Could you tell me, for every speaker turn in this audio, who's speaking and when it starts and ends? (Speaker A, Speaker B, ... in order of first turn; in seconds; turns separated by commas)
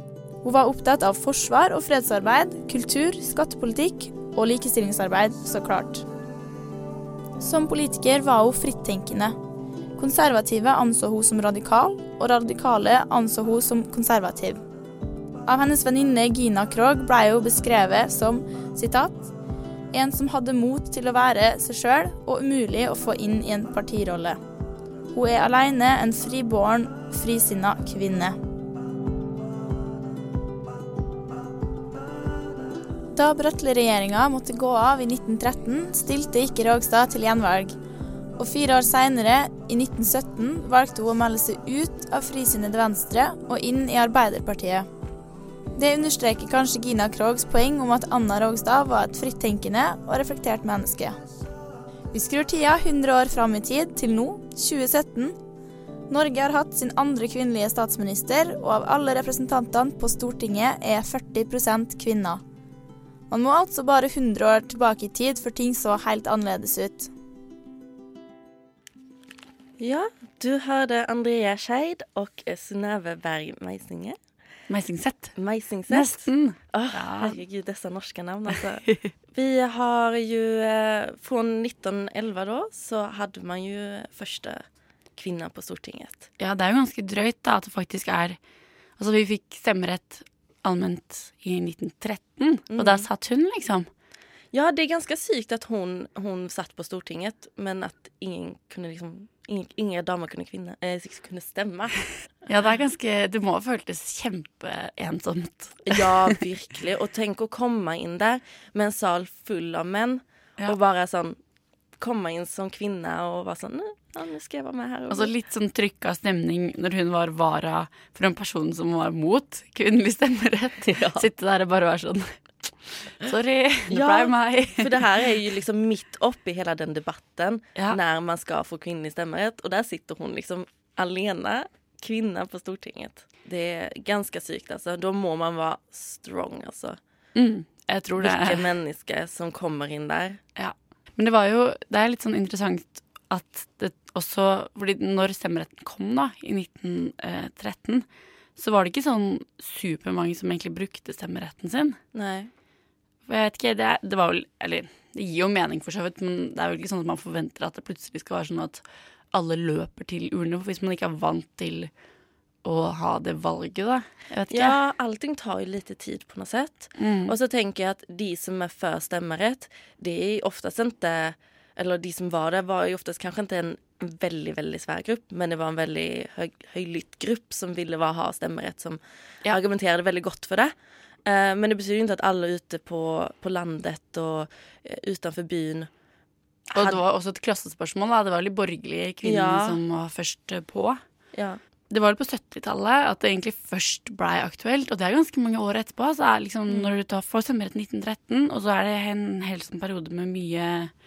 Speaker A: 0.4-6.0, Speaker A: 7.4-9.3, Speaker A: 10.0-14.6, Speaker A: 15.5-19.3, Speaker A: 19.9-24.4, Speaker A: 25.1-28.4, Speaker A: 33.1-37.7, Speaker A: 38.4-44.9, Speaker A: 45.8-51.2, Speaker A: 52.1-55.3, Speaker A: 56.1-62.4, Speaker A: 63.3-67.1, Speaker B: 69.8-74.2, Speaker C: 74.7-75.3, Speaker B: 75.3-84.6, Speaker C: 75.9-77.4, Speaker B: 85.2-86.3, Speaker C: 86.4-88.4, Speaker C: 89.0-93.9, Speaker B: 92.7-93.0, Speaker B: 94.5-102.1, Speaker C: 102.5-106.4, Speaker B: 105.8-111.4, Speaker B: 112.0-115.3, Speaker C: 115.1-124.9, Speaker B: 120.8-121.2, Speaker B: 123.9-137.0, Speaker C: 137.3-138.7, Speaker B: 138.2-140.4, Speaker C: 140.6-148.0, Speaker C: 148.6-152.0, Speaker B: 152.1-152.5, Speaker C: 153.3-161.9, Speaker C: 162.6-164.7, Speaker B: 164.5-180.7, Speaker C: 167.0-167.3, Speaker B: 181.2-185.9, Speaker B: 186.7-187.0, Speaker C: 186.7-191.0, Speaker B: 189.2-189.8, Speaker B: 191.3-191.6, Speaker C: 191.9-200.9, Speaker B: 196.7-196.9